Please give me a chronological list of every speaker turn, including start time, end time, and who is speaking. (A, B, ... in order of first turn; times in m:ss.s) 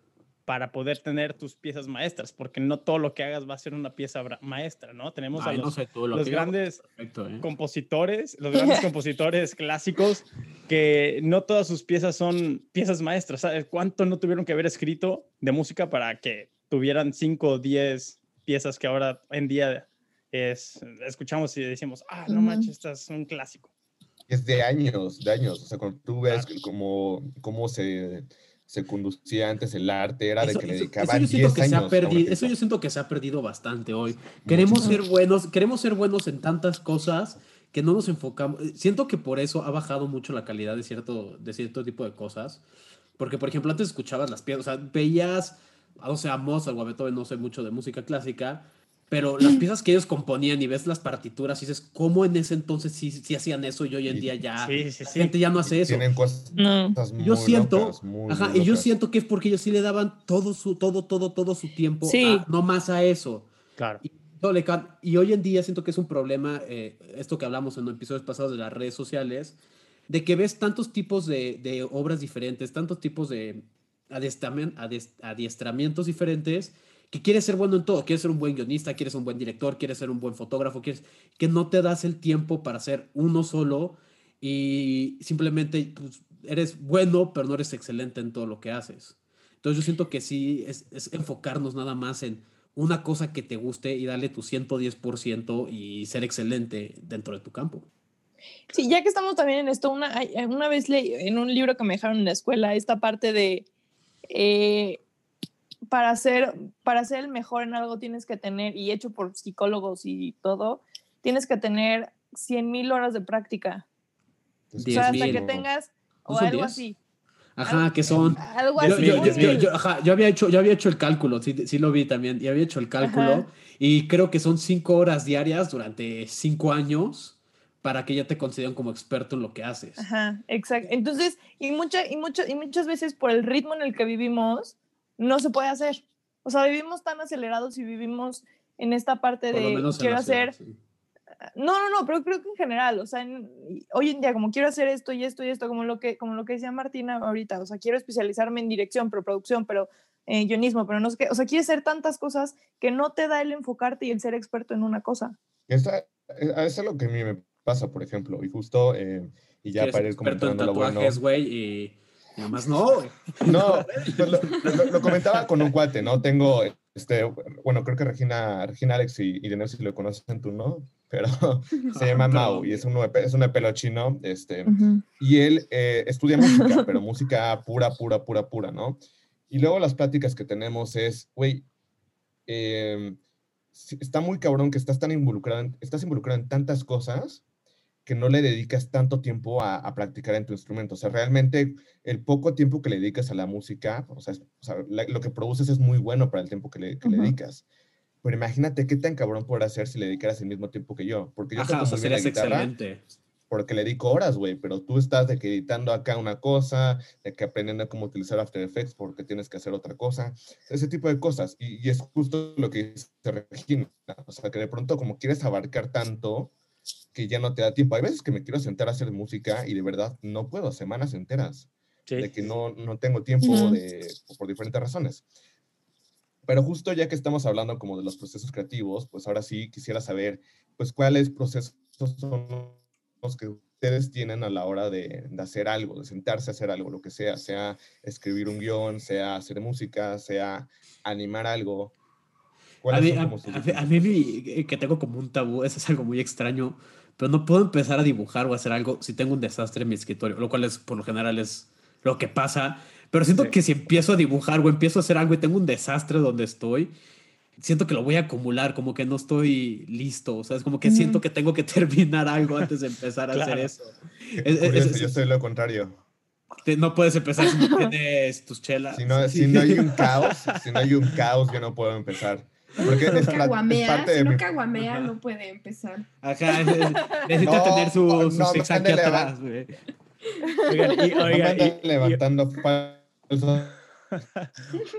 0:00.5-0:06.8 A
0:05.4-0:07.5 B
0:07.4-0:23.7 A
0:08.6-0:08.8 C
0:22.3-0:22.7 C
0:24.3-0:32.5 D
0:30.4-0:42.6 B
0:34.4-0:35.0 D
0:43.2-0:56.0 B
0:54.6-0:55.3 A
0:55.6-0:58.9 D
0:56.6-0:57.0 C
0:57.2-1:03.5 B
1:02.0-1:02.5 C
1:03.8-1:04.0 A
1:04.0-1:37.9 B
1:38.7-1:43.7 C
1:44.3-1:45.0 C
1:45.9-1:53.8 C
1:54.7-1:55.7 D
1:54.8-1:55.6 B
1:54.9-1:57.0 C
1:56.3-1:56.9 B
1:57.6-2:10.0 B
1:57.6-1:59.7 C
1:58.1-1:58.3 D
1:58.8-1:59.7 A
2:03.0-2:03.5 C
2:10.0-2:20.6 C
2:19.5-2:20.8 B
2:21.6-2:35.4 C
2:35.7-2:41.2 D
2:39.8-2:45.1 B
2:43.4-2:59.0 D
2:51.9-2:52.9 B
2:54.7-2:55.0 C
2:56.4-2:56.9 C
2:59.5-3:01.7 D
3:02.5-3:03.2 D
3:03.7-3:07.4 D
3:08.1-3:17.6 D
3:17.0-3:17.4 C
3:18.2-3:22.7 D
3:21.6-3:23.1 B
3:23.5-3:36.5 D
3:37.1-3:45.2 D
3:43.4-3:43.8 C
3:46.5-4:01.9 D
4:02.8-4:04.1 D
4:02.9-4:16.9 B
4:17.6-4:25.2 B
4:20.8-4:21.2 C
4:23.3-4:23.7 A
4:24.4-4:26.0 D
4:26.6-4:30.0 B
4:27.4-4:27.9 C
4:28.9-4:34.5 D
4:30.2-4:30.6 A
4:33.1-4:36.1 E
4:34.8-4:35.1 B
4:36.2-4:39.8 B
4:36.7-4:37.4 C
4:37.4-4:39.3 D
4:40.5-4:41.2 C
4:40.6-4:42.2 A
4:41.2-4:43.8 D
4:44.2-4:44.5 A